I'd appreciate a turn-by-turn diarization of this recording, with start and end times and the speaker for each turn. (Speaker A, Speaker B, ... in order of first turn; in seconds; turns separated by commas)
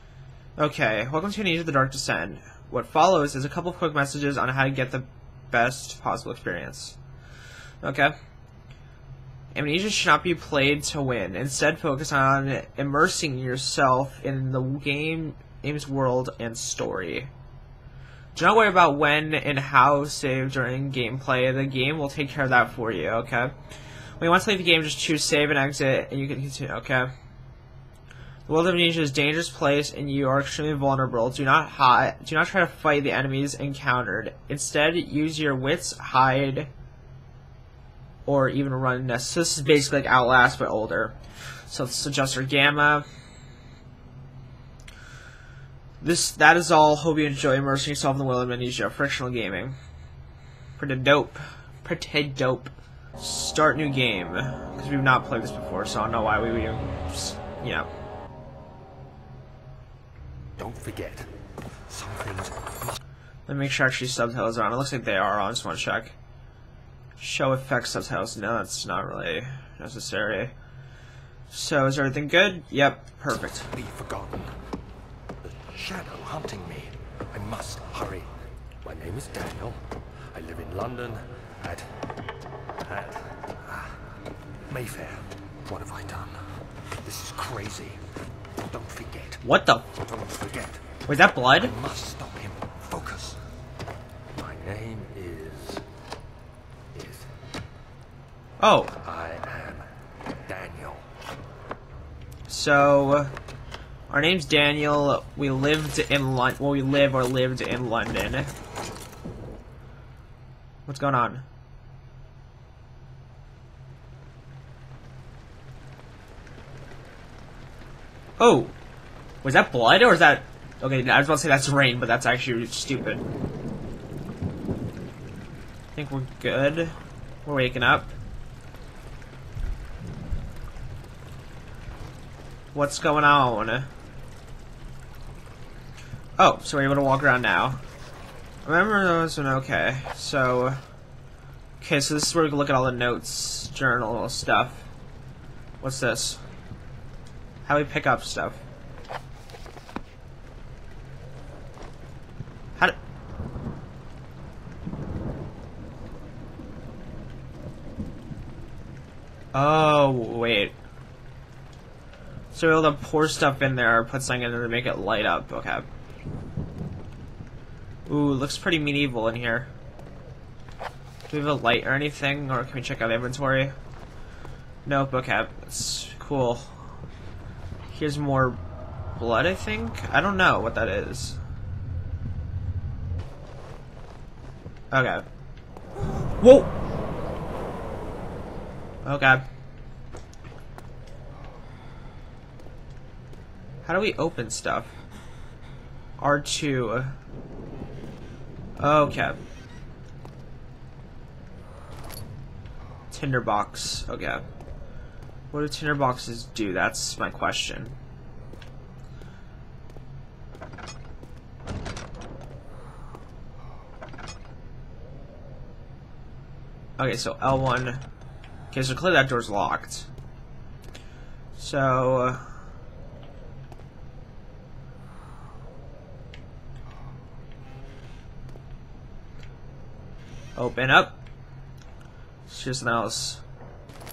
Speaker A: 0.6-7.0, Speaker A: 7.8-8.1, Speaker A: 9.5-17.3, Speaker A: 18.3-23.5, Speaker A: 24.2-27.1, Speaker A: 28.5-36.7, Speaker A: 38.3-41.2, Speaker A: 41.7-43.0, Speaker A: 46.0-49.8, Speaker A: 50.8-57.9, Speaker B: 60.6-61.3, Speaker B: 61.9-63.0, Speaker A: 63.5-66.2, Speaker A: 67.2-70.5, Speaker A: 71.5-73.7, Speaker B: 73.4-74.5, Speaker B: 75.4-78.3, Speaker B: 78.8-81.9, Speaker B: 82.8-84.1, Speaker B: 84.7-86.4, Speaker B: 87.0-88.0, Speaker B: 88.6-90.8, Speaker A: 89.4-89.8, Speaker A: 91.1-91.7, Speaker B: 91.6-93.4, Speaker B: 94.3-95.8, Speaker B: 96.9-97.3, Speaker A: 98.6-98.9, Speaker B: 99.0-101.1, Speaker A: 102.5-103.3, Speaker A: 104.1-108.5, Speaker A: 110.9-111.4, Speaker A: 118.4-118.7, Speaker A: 119.4-123.2, Speaker A: 125.9-128.1, Speaker A: 132.7-133.9, Speaker A: 136.4-137.8, Speaker A: 138.7-140.8, Speaker A: 141.8-144.9, Speaker A: 145.8-146.4, Speaker A: 147.7-148.6, Speaker A: 159.5-160.8, Speaker A: 162.5-165.9, Speaker A: 168.1-169.7, Speaker A: 171.3-173.8, Speaker A: 174.9-176.8, Speaker A: 177.9-178.6, Speaker A: 179.2-181.4, Speaker A: 184.9-185.2, Speaker A: 186.4-186.7, Speaker A: 189.0-189.5, Speaker A: 193.8-194.9, Speaker A: 196.2-197.2, Speaker A: 198.8-199.4, Speaker A: 203.1-204.4, Speaker A: 205.5-207.9, Speaker A: 217.0-218.0, Speaker A: 218.7-220.1, Speaker A: 221.6-222.4, Speaker A: 230.6-231.2, Speaker A: 232.5-233.4